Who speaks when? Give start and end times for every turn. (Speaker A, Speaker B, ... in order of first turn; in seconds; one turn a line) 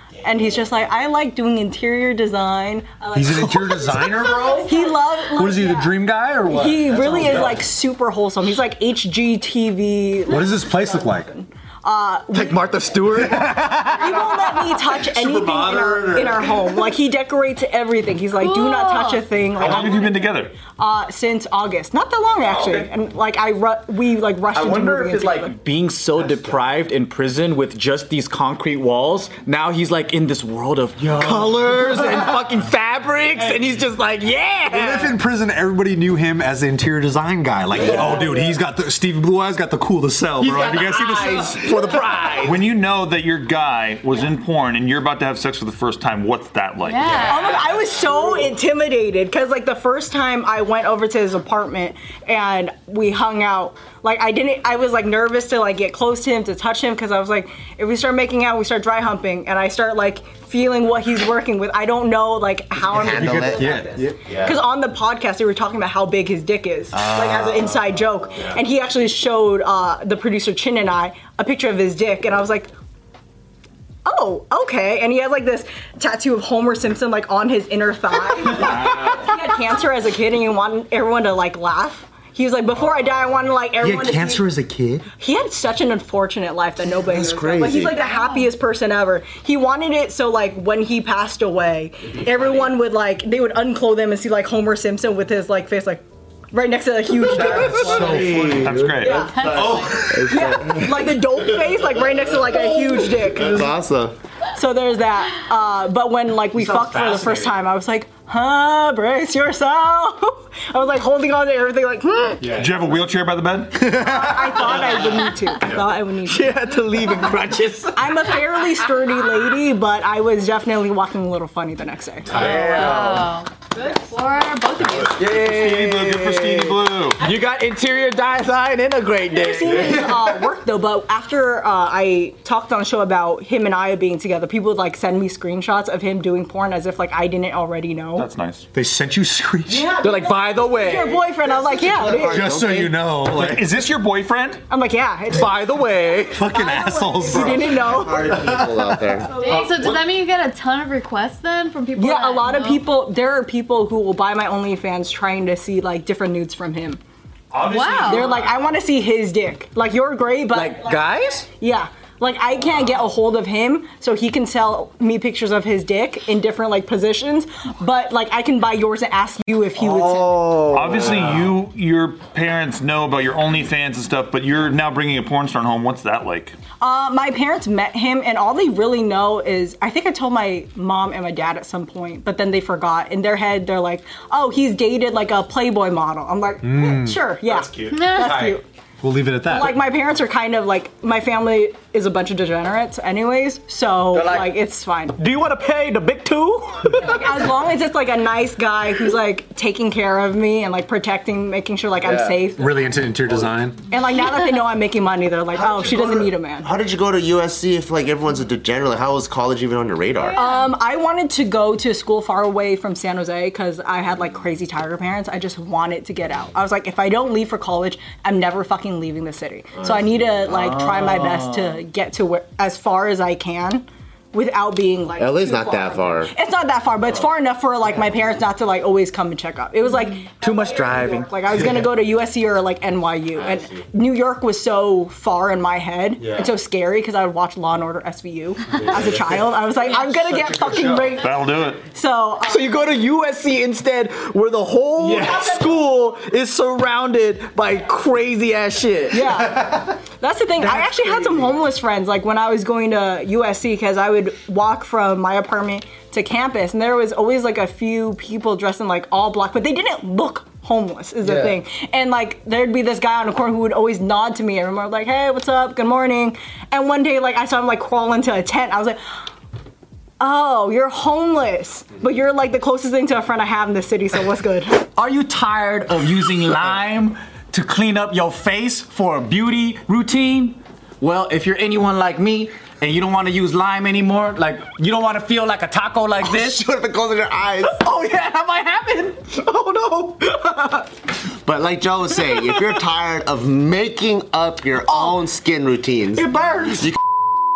Speaker A: 0.2-12.8
Speaker B: 3.1-7.6
Speaker B: 10.2-11.3
Speaker C: 12.3-14.9
Speaker B: 13.2-14.2
Speaker A: 14.0-25.5
Speaker B: 14.9-16.7
Speaker D: 18.4-19.2
Speaker E: 19.6-20.6
Speaker C: 22.4-22.9
Speaker C: 24.5-35.2
Speaker B: 31.1-31.8
Speaker B: 34.7-41.9
Speaker C: 37.8-38.5
Speaker C: 40.4-42.6
Speaker D: 40.9-41.4
Speaker E: 42.4-47.2
Speaker D: 46.8-47.6
Speaker A: 47.2-72.7
Speaker F: 62.9-63.7
Speaker B: 63.0-64.4
Speaker F: 66.9-67.8
Speaker A: 74.0-84.5
Speaker B: 78.7-79.1
Speaker B: 83.8-85.0
Speaker A: 85.2-99.3
Speaker F: 87.0-88.0
Speaker D: 87.9-88.5
Speaker B: 97.3-98.9
Speaker C: 97.5-98.8
Speaker E: 98.6-99.2
Speaker D: 99.0-100.2
Speaker B: 99.5-99.9
Speaker F: 99.7-101.1
Speaker A: 100.2-103.5
Speaker F: 103.4-104.2
Speaker A: 104.5-112.6
Speaker B: 106.8-107.2
Speaker C: 107.0-107.2
Speaker B: 112.4-112.9
Speaker E: 112.5-113.9
Speaker B: 113.9-115.0
Speaker A: 113.9-116.5
Speaker C: 116.2-118.2
Speaker A: 117.9-122.3
Speaker B: 122.3-123.1
Speaker C: 122.3-123.3
Speaker D: 122.3-125.2
Speaker C: 125.2-129.9
Speaker E: 125.2-127.2
Speaker A: 129.3-138.3
Speaker E: 138.2-138.7
Speaker B: 138.7-139.9
Speaker A: 139.7-142.5
Speaker C: 140.0-141.2
Speaker F: 141.5-143.0
Speaker B: 142.2-143.8
Speaker E: 143.3-144.6
Speaker A: 144.7-145.7
Speaker C: 145.3-146.4
Speaker B: 146.3-149.0
Speaker A: 146.4-148.3
Speaker F: 147.3-149.3
Speaker A: 149.2-149.9
Speaker D: 149.4-152.8
Speaker A: 151.9-157.0
Speaker E: 157.5-158.7
Speaker D: 157.6-158.3
Speaker A: 158.0-170.4
Speaker C: 160.5-161.5
Speaker C: 169.8-171.5
Speaker E: 170.7-176.6
Speaker A: 176.8-188.6
Speaker B: 186.6-187.4
Speaker E: 187.5-188.1
Speaker D: 187.9-188.5
Speaker B: 188.1-189.8
Speaker A: 189.4-195.2
Speaker C: 194.1-194.5
Speaker C: 195.2-197.2
Speaker A: 197.0-202.9
Speaker C: 202.0-202.4
Speaker B: 202.6-203.8
Speaker A: 203.8-206.7
Speaker F: 205.5-210.4
Speaker D: 210.1-210.7
Speaker A: 210.3-242.9
Speaker F: 219.8-220.4
Speaker C: 220.5-221.8
Speaker F: 225.2-226.3
Speaker C: 230.4-231.3
Speaker F: 233.4-233.6
Speaker B: 238.8-239.4
Speaker E: 241.2-241.8
Speaker C: 242.4-249.2
Speaker B: 245.0-245.4
Speaker A: 245.1-245.6
Speaker A: 249.1-269.0
Speaker A: 270.2-274.8
Speaker C: 274.9-286.6
Speaker F: 286.2-287.8
Speaker C: 287.6-290.9
Speaker F: 291.4-296.3
Speaker C: 294.9-295.1
Speaker C: 296.1-296.9